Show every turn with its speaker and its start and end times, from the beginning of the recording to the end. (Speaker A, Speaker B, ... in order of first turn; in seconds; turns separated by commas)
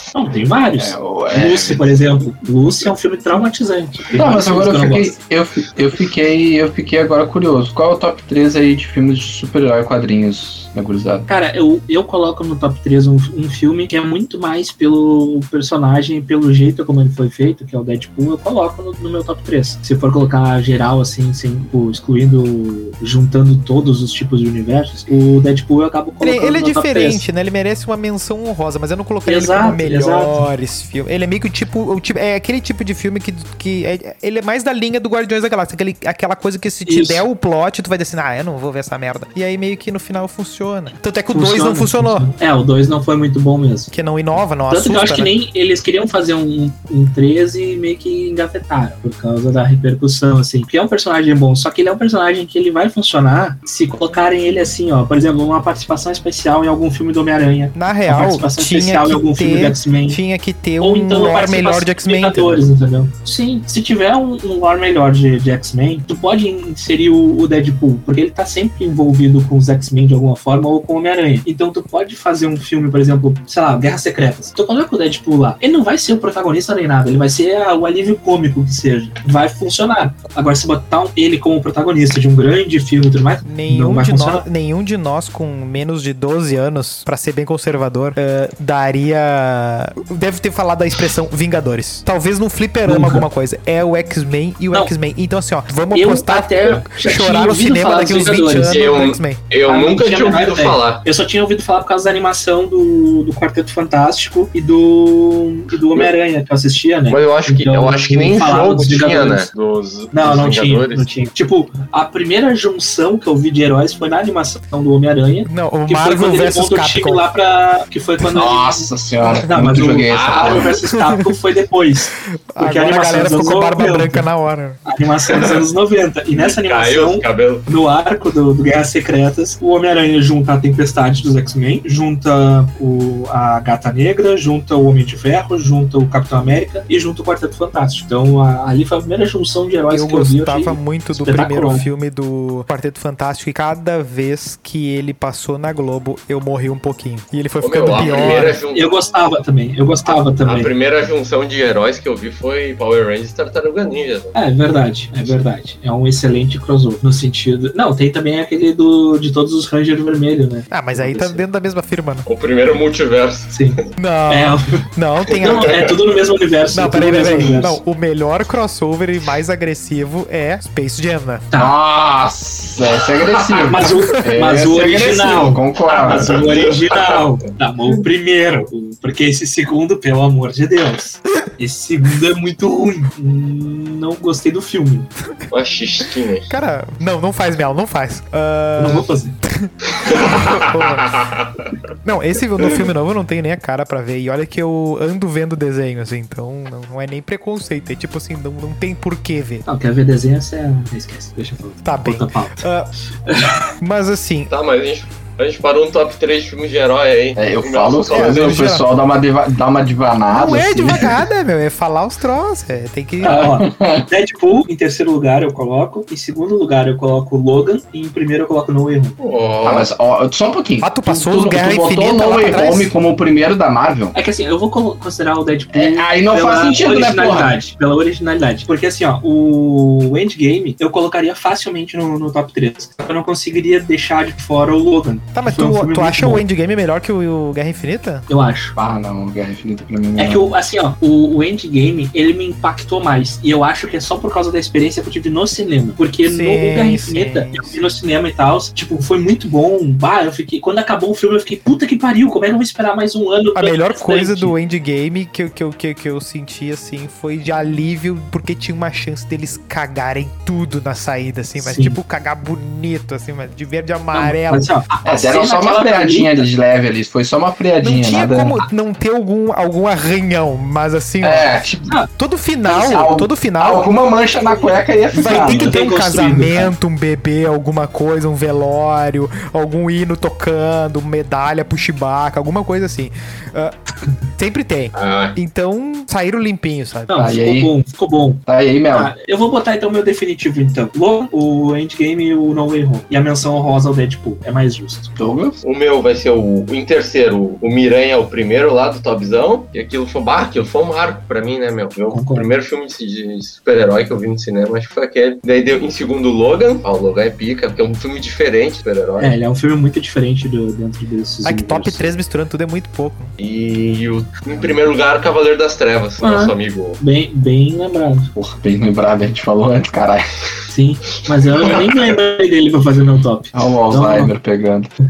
Speaker A: 0.1-5.2, Speaker B: 0.8-1.9, Speaker B: 4.2-11.3, Speaker A: 11.3-27.2, Speaker C: 26.2-42.3, Speaker A: 29.2-30.4, Speaker A: 36.9-37.2, Speaker A: 41.3-43.9, Speaker C: 43.9-45.3, Speaker A: 44.7-60.2, Speaker C: 57.7-62.6, Speaker A: 60.8-84.4, Speaker C: 83.4-99.4, Speaker A: 92.8-93.2, Speaker A: 95.9-98.8, Speaker D: 98.6-101.0, Speaker A: 99.7-109.5, Speaker D: 107.1-111.1, Speaker A: 110.1-124.2, Speaker C: 115.5-117.2, Speaker B: 118.3-120.7, Speaker D: 120.1-120.7, Speaker C: 120.9-121.2, Speaker C: 122.5-124.8, Speaker A: 124.8-141.8, Speaker D: 125.3-125.6, Speaker D: 126.3-127.7, Speaker C: 139.9-148.6, Speaker D: 147.6-148.9, Speaker A: 148.7-150.7, Speaker D: 150.4-154.3, Speaker A: 154.3-161.4, Speaker C: 160.7-162.2, Speaker D: 162.2-163.6, Speaker A: 163.5-164.8, Speaker C: 164.0-165.9, Speaker A: 165.4-167.8, Speaker D: 165.5-165.8, Speaker C: 166.7-171.5, Speaker B: 171.5-176.4, Speaker A: 173.6-185.1, Speaker D: 176.3-177.2, Speaker D: 185.5-186.5, Speaker C: 186.5-191.2, Speaker A: 188.8-189.4, Speaker D: 189.9-191.5, Speaker C: 192.0-199.6, Speaker A: 199.7-202.6, Speaker C: 201.8-202.9, Speaker A: 203.2-203.7, Speaker C: 203.8-204.5, Speaker D: 204.5-208.6, Speaker B: 207.4-211.1, Speaker C: 208.1-208.8, Speaker C: 210.3-213.6, Speaker A: 213.2-219.2, Speaker B: 213.4-214.1, Speaker D: 219.2-219.9, Speaker B: 219.6-224.1, Speaker C: 220.8-222.9, Speaker A: 224.1-236.4, Speaker B: 225.7-227.5, Speaker C: 235.3-238.2, Speaker A: 238.3-238.7, Speaker B: 238.8-240.5, Speaker A: 240.2-254.5, Speaker C: 246.2-247.8, Speaker C: 253.5-264.7, Speaker A: 261.6-261.9, Speaker A: 264.1-266.4, Speaker B: 265.0-268.5, Speaker C: 267.8-271.5, Speaker B: 271.2-271.9, Speaker C: 272.1-273.9, Speaker B: 272.7-275.8, Speaker A: 274.4-276.7, Speaker C: 275.1-283.7, Speaker C: 284.4-287.2, Speaker D: 284.9-285.4, Speaker A: 287.1-288.4, Speaker B: 287.1-287.7, Speaker B: 288.4-289.1, Speaker A: 288.9-295.2, Speaker B: 295.2-295.6, Speaker D: 295.6-309.4, Speaker A: 302.1-302.5, Speaker A: 309.2-312.1, Speaker C: 311.4-313.3, Speaker D: 313.4-317.0, Speaker A: 316.2-318.3, Speaker B: 318.3-320.2, Speaker A: 320.7-324.3, Speaker D: 321.6-321.9, Speaker B: 323.5-324.9